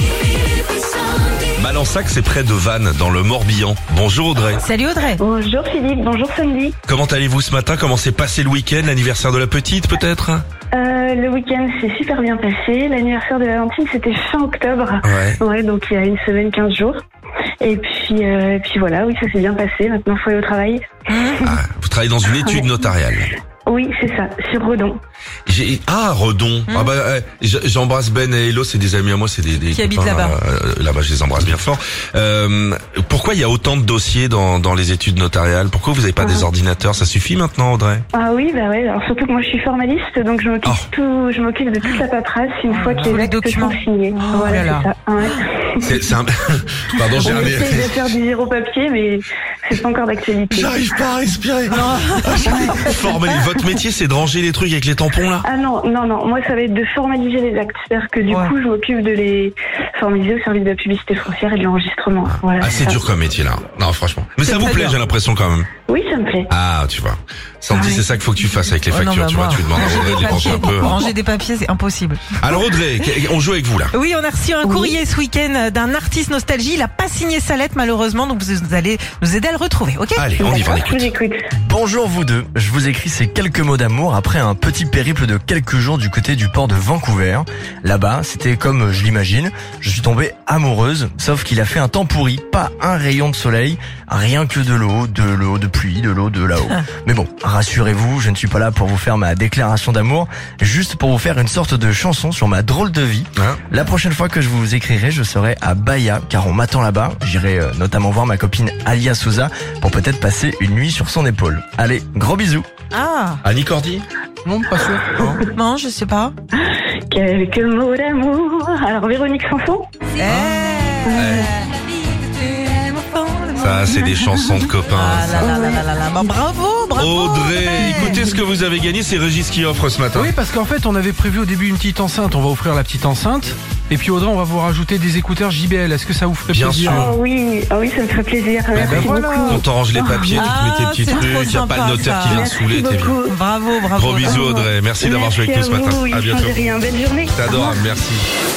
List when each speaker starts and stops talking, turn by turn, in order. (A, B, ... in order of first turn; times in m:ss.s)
0:01.6-0:04.6 A
0:04.6-0:05.2 B
0:05.2-0:06.8 C
0:06.9-0:10.4 A
0:10.7-0:17.0 C
0:15.0-0:15.4 A
0:17.6-0:21.5 C
0:21.1-0:21.4 B
0:21.4-0:23.3 A
0:22.3-0:22.9 C
0:23.6-0:25.0 C
0:25.5-0:38.0 A
0:26.7-0:26.9 B
0:29.7-0:30.4 B
0:36.2-0:36.5 C
0:38.1-0:45.9 C
0:42.7-0:45.4 B
0:45.8-0:48.0 A
0:46.9-0:47.8 D
0:47.1-0:50.9 C
0:50.5-0:55.4 A
0:51.7-0:53.1 B
0:55.4-1:03.0 C
0:58.3-0:58.5 B
1:02.3-1:05.7 A
1:04.4-1:05.0 B
1:05.9-1:06.5 C
1:06.5-1:11.0 A
1:07.7-1:08.0 C
1:08.9-1:12.4 B
1:12.4-1:13.9 A
1:13.9-1:20.3 B
1:14.6-1:14.9 C
1:20.1-1:21.1 A
1:20.4-1:21.5 C
1:21.6-1:52.6 E
1:43.4-1:43.6 A
1:52.9-1:53.4 B
1:53.4-1:54.0 A
1:54.4-1:55.3 D
1:55.0-1:55.4 A
1:55.4-1:56.3 B
1:57.1-1:59.8 C
2:00.2-2:04.3 B
2:00.2-2:00.6 A
2:01.0-2:01.5 C
2:01.2-2:01.5 A
2:03.6-2:05.5 A
2:04.9-2:08.2 B
2:05.4-2:05.9 C
2:07.0-2:10.3 A
2:10.1-2:17.1 D
2:16.5-2:17.1 A
2:16.9-2:20.5 C
2:18.7-2:19.6 D
2:18.8-2:23.1 A
2:20.3-2:22.5 B
2:22.2-2:23.4 C
2:23.2-2:24.6 B
2:23.9-2:26.5 A
2:24.2-2:27.8 C
2:27.3-2:28.3 A